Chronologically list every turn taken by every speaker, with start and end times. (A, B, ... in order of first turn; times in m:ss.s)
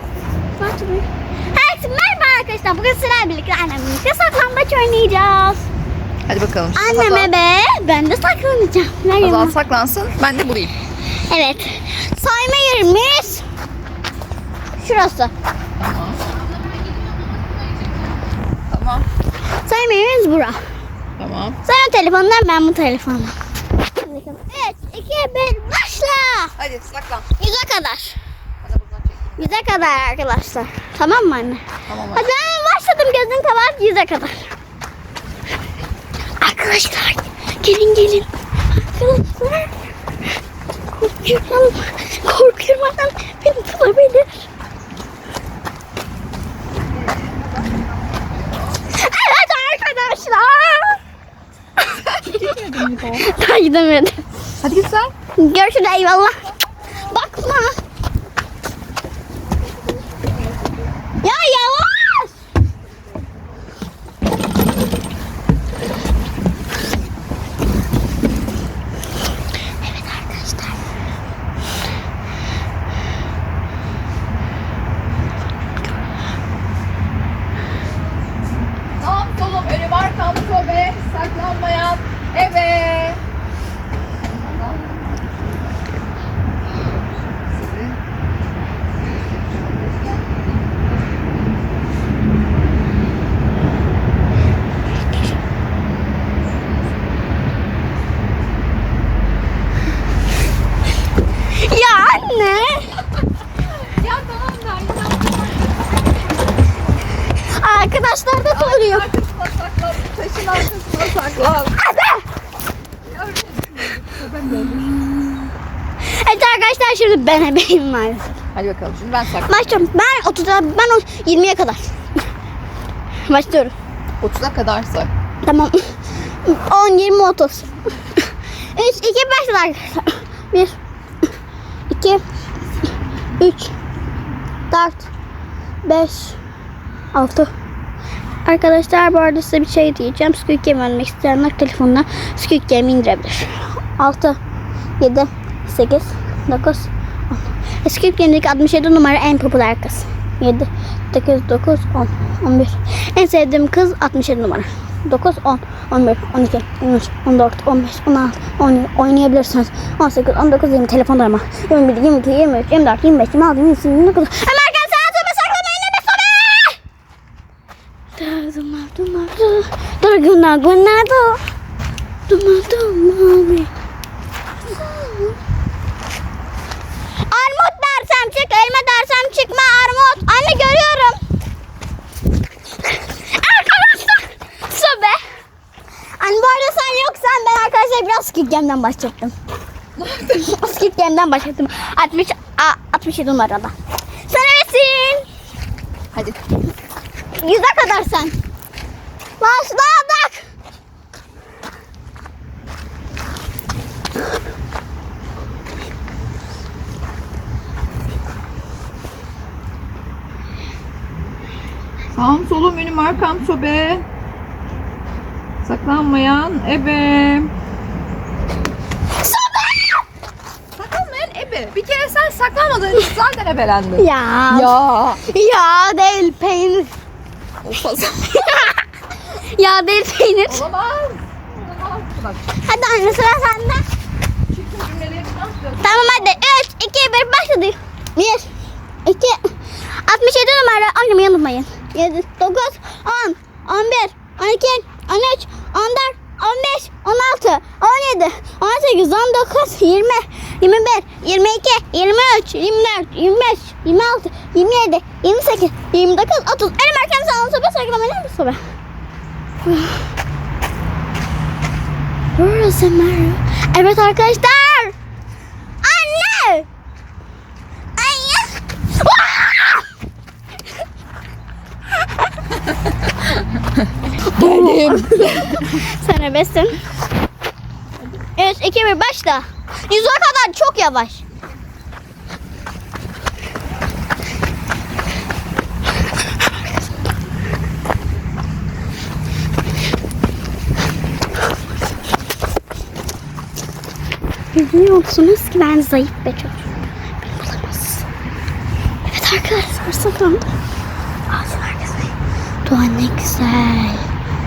0:00.6-0:05.7 A
0:06.3-0:07.3 B
0:06.8-0:09.6 A
0:09.2-0:10.8 B
0:11.1-0:13.4 A
0:14.8-0:15.3 A
0:15.8-0:16.3 B
0:18.7-0:19.1 B
0:19.6-0:20.6 A
0:21.2-0:21.6 B
0:21.6-0:23.4 A
0:23.9-0:26.6 A
0:26.6-0:27.2 B
0:27.4-0:28.2 A
0:28.6-0:29.9 B
0:29.4-0:34.5 A
0:31.9-0:32.3 B
0:36.4-0:38.3 A
0:38.8-0:39.8 A
0:41.0-0:44.5 A
0:48.9-0:51.0 A
0:52.0-0:52.4 A
0:52.1-0:53.3 B
0:53.0-0:54.2 A
0:54.6-0:55.1 B
0:55.4-0:57.8 A
1:01.2-1:02.4 A
1:09.8-1:10.9 A
1:19.0-1:23.2 B
1:24.3-1:25.1 B
1:27.5-1:28.0 B
1:29.5-1:30.2 B
1:41.5-1:43.0 A
1:43.8-1:46.2 B
1:47.6-1:49.1 A
1:48.5-1:51.8 B
1:51.8-1:52.2 A
1:53.1-1:54.9 B
1:56.0-1:58.3 A
1:58.6-1:59.8 B
1:59.4-2:02.0 A
2:03.3-2:03.7 A
2:04.2-2:05.1 B
2:05.4-2:10.8 A
2:11.9-2:12.2 A
2:13.4-2:13.7 A
2:14.7-2:15.1 A
2:15.8-2:16.4 A
2:17.1-2:17.5 A
2:18.4-2:24.4 A
2:25.0-2:46.8 A
2:48.2-2:51.4 A
2:52.3-2:53.7 A
2:54.6-2:55.4 A
2:57.3-3:01.2 A
3:02.8-3:05.2 A
3:06.2-3:09.3 A
3:10.0-3:10.4 B
3:10.3-3:13.7 A
3:14.3-3:15.2 A
3:16.1-3:16.4 B
3:17.4-3:18.3 A
3:19.4-3:20.4 A
3:32.1-3:34.0 B
3:35.6-3:37.5 B
3:39.2-3:40.0 A
3:40.8-3:45.3 B
3:44.0-3:46.9 A
3:47.6-3:48.4 B
3:48.3-3:50.6 A
3:50.5-3:52.4 B
3:52.6-3:53.8 A
3:54.5-3:56.4 B
3:55.8-3:58.5 A
3:59.0-4:18.6 A
4:19.6-4:20.1 A
4:22.3-4:24.9 A
4:25.8-4:26.7 A
4:28.0-4:29.8 A
4:34.2-4:36.8 A
4:34.3-4:35.8 B
4:38.4-4:41.2 A
4:54.5-4:56.6 A
4:57.2-4:58.1 A
4:59.0-5:00.4 A
5:01.3-5:04.1 A